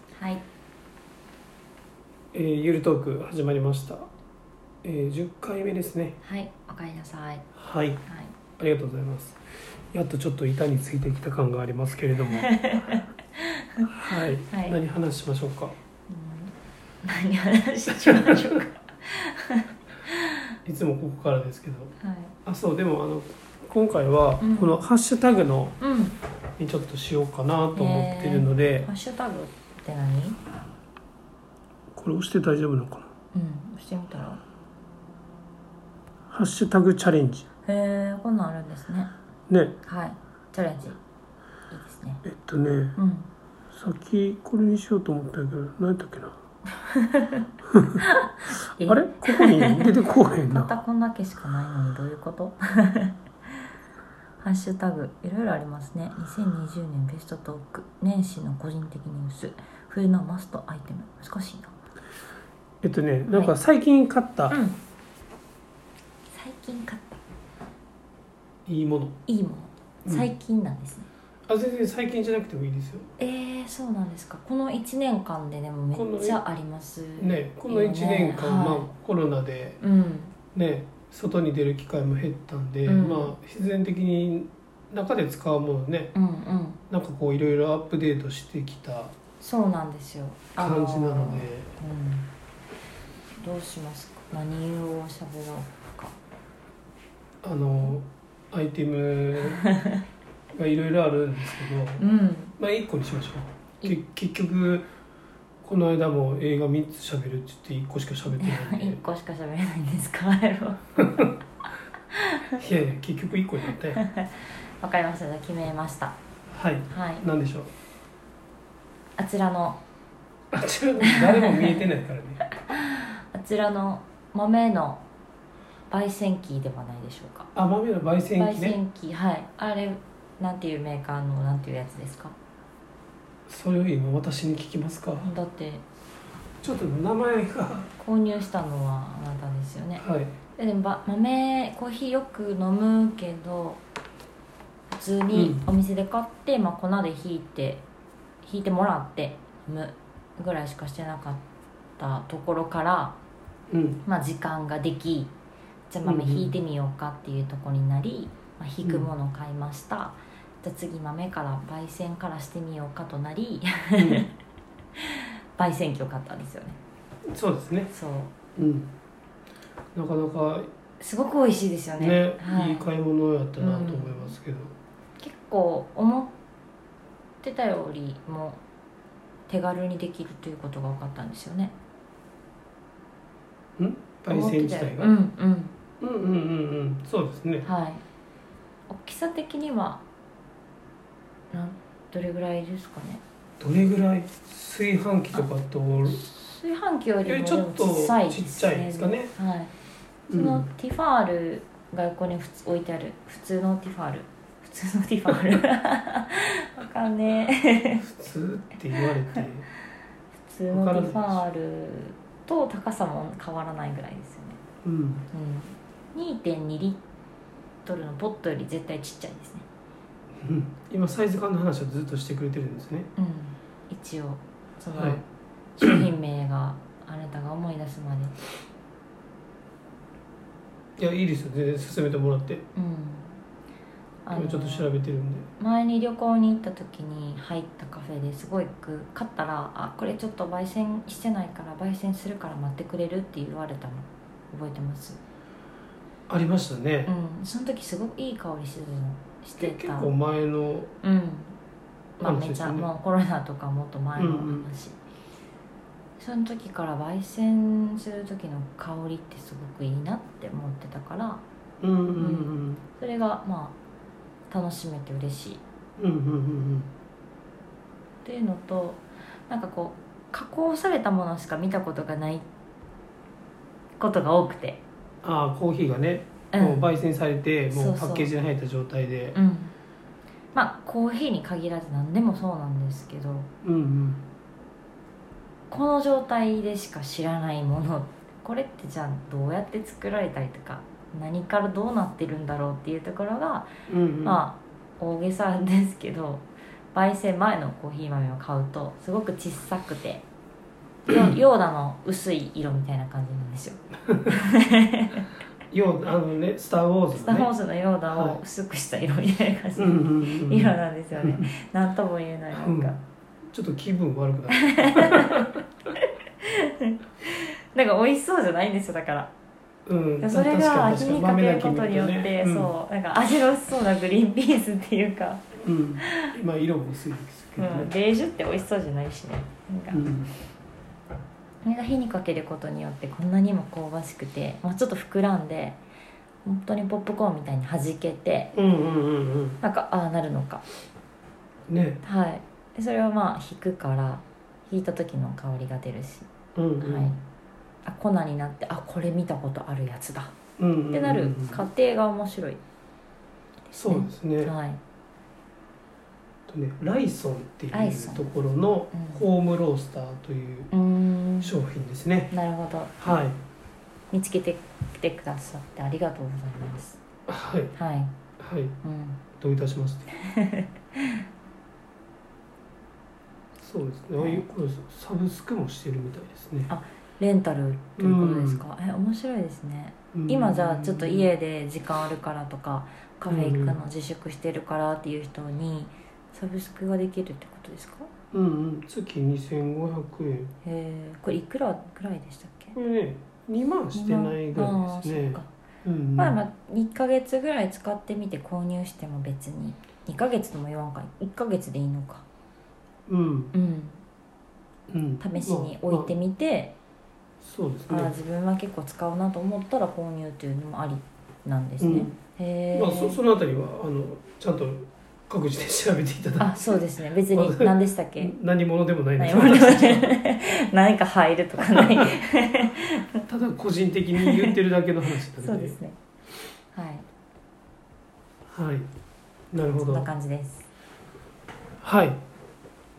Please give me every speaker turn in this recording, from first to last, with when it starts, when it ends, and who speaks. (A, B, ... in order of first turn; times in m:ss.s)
0:00.2-0:00.4 A
0:02.3-0:04.0 B
0:04.8-0:06.2 B
0:06.2-0:07.4 A
0:07.6-0:08.0 B
0:08.0-0:08.3 A
0:08.6-0:09.4 B
0:09.9-0:12.7 B
0:12.4-0:14.8 A
0:13.8-0:15.7 B
0:16.1-0:20.2 A
0:18.0-0:18.5 B
0:20.6-0:21.9 B
0:22.0-0:22.3 A
0:22.4-0:25.8 B
0:24.4-0:24.7 A
0:25.8-0:26.2 A
0:26.6-0:28.9 B
0:27.7-0:30.4 A
0:31.9-0:33.1 B
0:33.3-0:34.4 A
0:36.3-0:37.5 B
0:37.6-0:39.1 A
0:39.5-0:39.8 B
0:39.8-0:41.0 A
0:41.7-0:42.2 A
0:42.2-0:43.0 B
0:43.0-0:43.3 A
0:43.7-0:46.4 B
0:46.8-0:47.4 A
0:48.0-0:53.1 A
0:48.8-0:50.8 B
0:54.4-1:01.8 A
1:02.8-1:04.6 B
1:03.3-1:03.5 A
1:04.5-1:04.8 A
1:06.3-1:07.2 A
1:08.6-1:09.2 B
1:09.3-1:11.1 A
1:11.5-1:13.1 B
1:13.2-1:18.9 A
1:15.9-1:16.4 B
1:17.2-1:19.8 B
1:19.8-1:20.3 A
1:20.5-1:26.1 B
1:22.8-1:23.3 A
1:26.1-1:26.8 A
1:26.9-1:29.1 B
1:29.4-1:32.3 A
1:30.6-1:31.7 B
1:33.4-1:36.1 A
1:37.4-1:39.6 B
1:39.6-1:39.9 A
1:40.5-1:42.0 B
1:42.0-1:42.5 A
1:42.6-1:44.9 B
1:45.6-1:49.0 B
1:48.4-1:51.0 A
1:51.0-1:51.3 B
1:52.1-1:52.6 A
1:52.6-1:54.0 B
1:54.1-1:56.2 A
1:56.5-1:57.7 B
1:56.9-1:57.2 A
1:59.2-1:59.8 A
2:00.5-2:02.4 B
2:01.0-2:01.8 A
2:02.6-2:05.0 A
2:05.9-2:07.5 A
2:07.5-2:08.8 B
2:08.4-2:12.3 A
2:13.5-2:15.3 B
2:15.2-2:15.8 A
2:16.6-2:17.9 B
2:18.0-2:20.0 A
2:20.0-2:20.3 B
2:20.6-2:23.8 A
2:24.9-2:27.8 A
2:25.3-2:25.7 B
2:28.4-2:31.4 A
2:32.0-2:33.2 A
2:33.7-2:34.0 B
2:34.0-2:35.3 A
2:35.9-2:44.3 A
2:36.0-2:36.5 B
2:38.8-2:39.1 B
2:44.0-2:44.2 B
2:45.0-2:46.8 A
2:47.3-2:47.9 B
2:47.9-2:48.3 A
2:48.6-2:48.9 B
2:49.9-2:50.7 B
2:51.0-2:52.9 A
2:52.0-2:54.7 B
2:53.6-2:54.4 A
2:55.2-2:56.4 A
2:57.4-2:58.6 A
2:59.5-3:01.8 A
3:03.8-3:05.2 B
3:04.3-3:05.7 A
3:06.0-3:07.6 B
3:07.6-3:08.0 A
3:08.9-3:10.0 A
3:11.5-3:13.2 A
3:13.6-3:16.2 B
3:16.0-3:19.7 A
3:17.2-3:19.3 B
3:20.3-3:20.7 B
3:20.3-3:28.0 A
3:28.0-3:29.6 B
3:30.4-3:34.6 A
3:30.7-3:31.4 B
3:34.8-3:35.2 B
3:35.3-3:37.0 A
3:37.8-3:39.6 A
3:40.4-3:43.1 B
3:43.2-3:45.2 A
3:44.9-3:45.2 B
3:45.8-3:48.3 A
3:51.0-3:52.6 B
3:52.7-3:53.4 A
3:54.2-3:54.9 A
3:54.3-3:55.5 B
3:55.6-4:05.2 A
4:06.3-4:07.1 B
4:07.1-4:10.1 A
4:09.6-4:10.9 B
4:11.0-4:11.5 A
4:12.2-4:15.0 A
4:12.2-4:12.9 B
4:14.2-4:14.7 B
4:16.2-4:21.4 A
4:21.8-4:22.8 B
4:22.2-4:23.7 A
4:24.5-4:25.6 A
4:26.0-4:26.9 B
4:28.2-4:32.4 A
4:34.0-4:34.8 A
4:35.2-4:39.4 B
4:36.5-4:36.9 A
4:37.7-4:38.3 A
4:39.3-4:39.7 A
4:40.5-4:43.5 A
4:43.6-4:44.2 B
4:45.7-4:53.7 A
4:53.9-4:54.4 B
4:54.2-5:00.2 A
5:01.1-5:05.2 A
5:05.7-5:07.5 B
5:07.1-5:13.0 A
5:08.1-5:08.4 B
5:09.8-5:11.5 B
5:12.6-5:12.9 B
5:13.5-5:15.6 B
5:14.5-5:19.3 A
5:19.9-5:22.7 B
5:20.2-5:25.5 A
5:25.6-5:27.9 B
5:26.0-5:26.3 A
5:27.6-5:30.1 A
5:29.9-5:30.3 B
5:31.6-5:35.8 A
5:36.4-5:38.5 A
5:38.5-5:39.6 B
5:39.6-5:40.6 A
5:41.7-5:42.0 B
5:42.0-5:46.3 A
5:46.5-5:47.1 B
5:46.8-5:47.2 A
5:47.8-5:50.3 A
5:50.6-5:51.6 B
5:50.9-5:52.6 A
5:53.7-5:54.5 B
5:53.7-5:54.8 A
5:56.5-6:00.7 B
5:57.7-5:58.3 A
5:58.9-5:59.2 A
6:00.7-6:01.6 A
6:01.4-6:02.3 B
6:02.3-6:03.2 A
6:03.0-6:03.4 B
6:04.1-6:07.0 A
6:07.3-6:07.7 B
6:07.7-6:08.1 A
6:08.4-6:08.8 B
6:08.8-6:09.2 A
6:09.4-6:10.1 B
6:10.2-6:11.2 A
6:13.6-6:16.7 B
6:14.2-6:14.5 A
6:16.7-6:28.1 A
6:18.0-6:18.6 B
6:20.1-6:21.3 B
6:23.3-6:23.8 B
6:28.3-6:30.5 B
6:30.6-6:32.7 A
6:32.7-6:36.4 B
6:33.9-6:35.5 A
6:36.2-6:42.2 A
6:43.1-6:43.5 B
6:43.5-6:44.0 A
6:44.9-6:46.1 B
6:45.2-6:46.7 A
6:47.4-6:48.1 B
6:47.9-6:53.2 A
6:51.8-6:52.1 B
6:52.7-7:00.2 B
6:56.4-6:58.3 A
6:59.2-7:03.2 A
7:01.6-7:02.1 B
7:03.3-7:05.8 B
7:04.2-7:04.6 A
7:05.3-7:06.0 A
7:06.7-7:07.0 A
7:08.5-7:08.9 B
7:09.5-7:10.1 B
7:09.9-7:10.7 A
7:11.8-7:12.2 B